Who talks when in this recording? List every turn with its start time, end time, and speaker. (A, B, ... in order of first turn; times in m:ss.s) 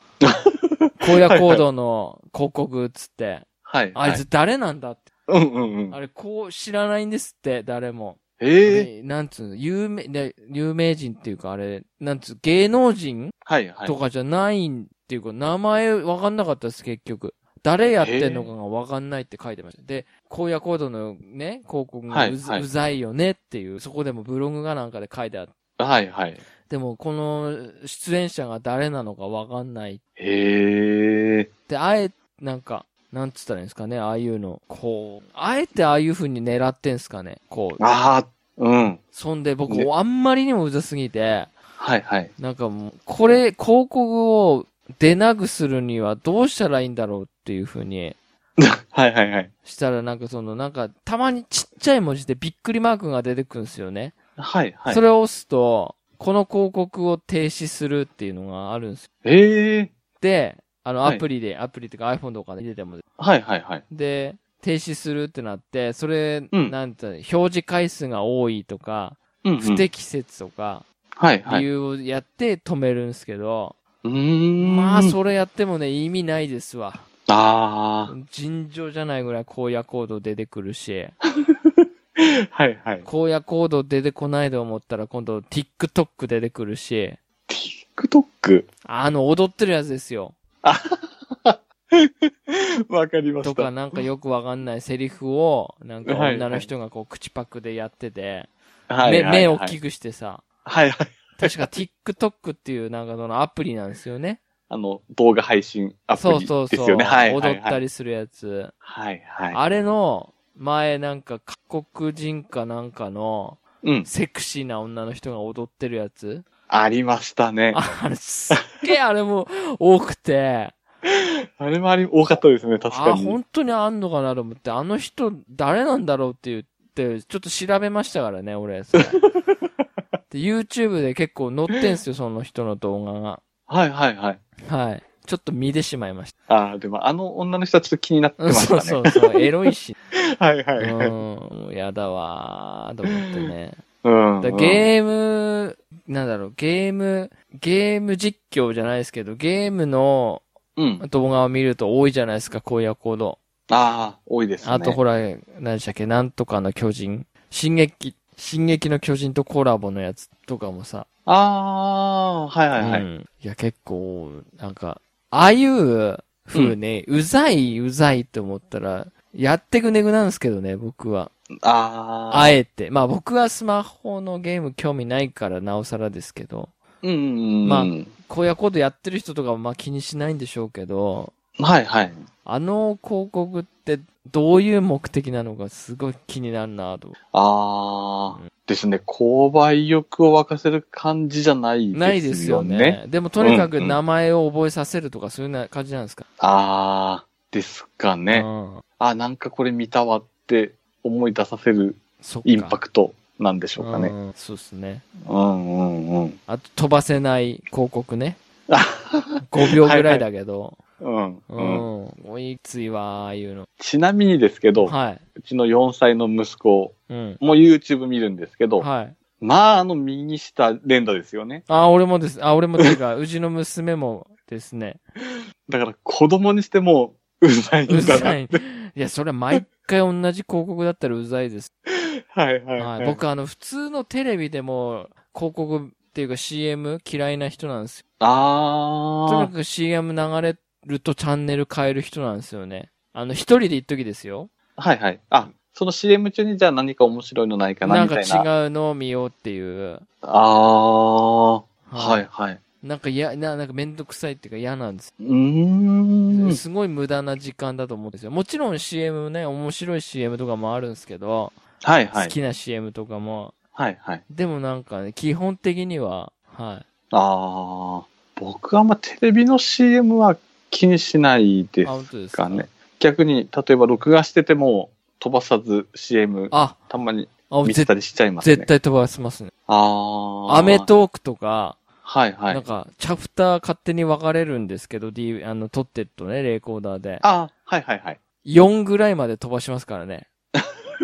0:00.2-0:01.6 A
0:01.0-0:05.1 B
0:03.6-0:04.2 A
0:05.3-0:06.0 A
0:05.9-0:25.5 B
0:08.4-0:08.9 A
0:13.4-0:14.0 A
0:18.0-0:18.5 A
0:22.1-0:22.7 A
0:25.8-0:26.4 A
0:26.7-0:30.0 B
0:30.2-0:31.5 A
0:31.7-0:37.8 B
0:37.8-0:39.0 A
0:39.1-0:41.5 B
0:41.8-0:42.3 A
0:42.4-0:48.2 B
0:48.6-0:49.5 A
0:49.6-0:54.1 B
0:54.4-0:55.0 A
0:54.9-0:59.1 B
0:59.2-0:59.9 A
1:00.2-1:03.0 B
1:03.2-1:03.8 A
1:03.9-1:10.8 B
1:09.4-1:09.9 A
1:11.2-1:11.6 A
1:11.5-1:13.8 B
1:14.0-1:15.1 A
1:14.6-1:17.0 B
1:17.3-1:18.1 A
1:18.1-1:21.1 B
1:22.2-1:23.0 A
1:23.0-1:27.2 B
1:27.5-1:28.7 A
1:28.8-1:30.4 B
1:30.6-1:33.9 A
1:33.4-1:38.5 B
1:36.0-1:36.7 A
1:38.9-1:39.8 A
1:39.0-1:40.4 B
1:40.6-1:41.6 A
1:41.4-1:44.4 B
1:44.7-1:47.8 A
1:46.1-1:48.7 B
1:48.8-1:49.6 A
1:49.5-1:56.4 B
1:53.8-1:54.1 A
1:56.7-1:57.8 A
1:57.7-2:00.7 B
1:58.5-1:58.9 A
2:01.6-2:03.4 A
2:02.9-2:09.2 B
2:10.3-2:13.4 B
2:13.7-2:14.4 A
2:14.6-2:16.3 B
2:16.5-2:19.2 A
2:18.4-2:20.0 B
2:20.4-2:21.1 A
2:20.8-2:23.8 B
2:23.1-2:23.5 A
2:24.0-2:24.9 A
2:24.4-2:30.4 B
2:30.8-2:31.0 A
2:31.0-2:33.4 B
2:33.7-2:35.0 A
2:34.6-2:41.1 B
2:41.2-2:43.1 A
2:42.8-2:51.3 B
2:51.6-2:52.6 A
2:52.3-2:56.7 B
2:57.0-2:58.1 A
2:57.6-3:01.3 B
3:01.6-3:02.2 A
3:02.4-3:07.2 B
3:07.3-3:14.0 A
3:11.9-3:16.3 B
3:16.4-3:18.5 A
3:18.3-3:18.8 B
3:19.0-3:24.1 A
3:22.2-3:22.8 B
3:23.8-3:25.0 B
3:25.2-3:26.4 A
3:26.5-3:28.4 B
3:28.7-3:30.2 A
3:29.5-3:30.8 B
3:31.0-3:31.8 A
3:31.5-3:33.7 B
3:33.8-3:38.8 A
3:34.8-3:35.2 B
3:37.1-3:37.4 B
3:38.8-3:39.2 B
3:39.4-3:41.6 A
3:41.7-3:45.0 B
3:45.7-3:48.6 A
3:47.9-3:51.7 B
3:52.3-3:53.2 A
3:52.8-3:58.0 B
3:58.2-3:59.5 A
3:59.3-4:04.5 B
4:04.8-4:08.5 A
4:07.8-4:10.0 B
4:10.2-4:12.6 A
4:11.9-4:12.2 B
4:12.8-4:15.1 B
4:15.2-4:16.6 A
4:16.3-4:21.5 B
4:21.8-4:22.3 A
4:22.1-4:23.5 B
4:23.7-4:24.2 A
4:24.3-4:26.8 B
4:27.1-4:38.7 A
4:31.8-4:32.7 B
4:36.5-4:36.8 B
4:37.5-4:39.5 B
4:39.7-4:40.9 A
4:40.5-4:41.8 B
4:42.0-4:42.6 A
4:42.5-4:47.2 B
4:47.2-4:48.2 A
4:48.4-4:50.3 B